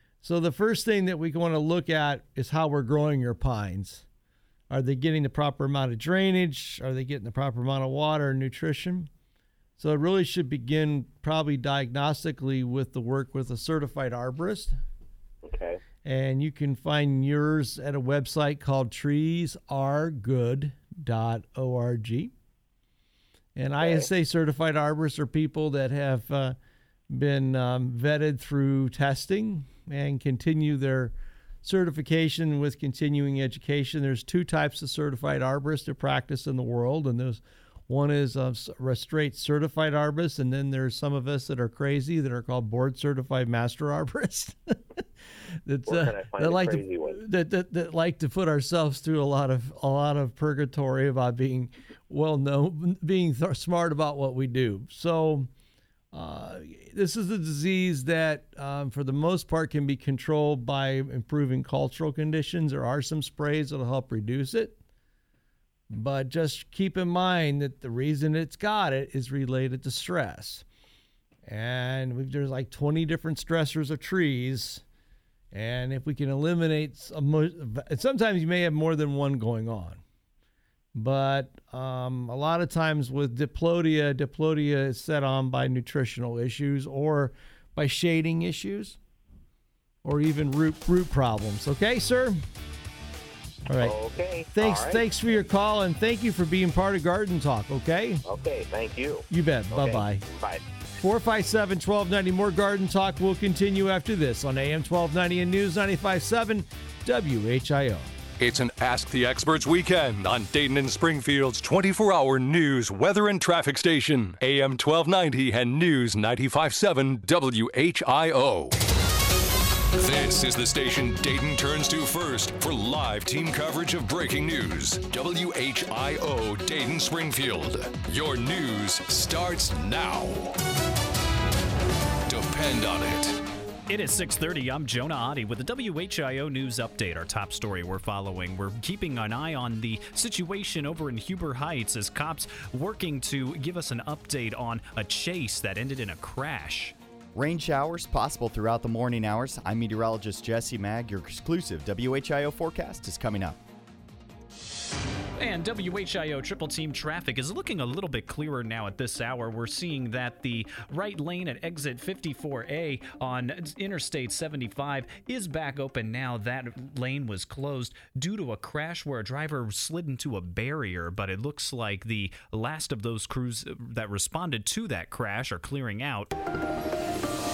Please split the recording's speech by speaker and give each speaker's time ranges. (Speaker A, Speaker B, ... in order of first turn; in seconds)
Speaker A: 0.2-4.0, 4.7-9.1, 9.8-14.8, 16.0-22.3, 23.6-26.6, 27.1-44.8, 45.7-55.5, 56.1-64.8, 65.9-70.7, 71.5-74.8, 75.5-80.0, 80.9-89.0, 90.0-92.4, 93.7-93.9, 94.5-98.2, 99.3-100.2, 101.0-108.1
Speaker B: 15.4-15.8, 23.8-24.1, 45.9-47.2, 93.8-95.2, 98.3-100.6
Speaker C: 108.4-118.8, 120.0-130.5, 132.3-133.4
Speaker D: 133.9-146.9, 155.4-176.3
Speaker E: 147.3-153.6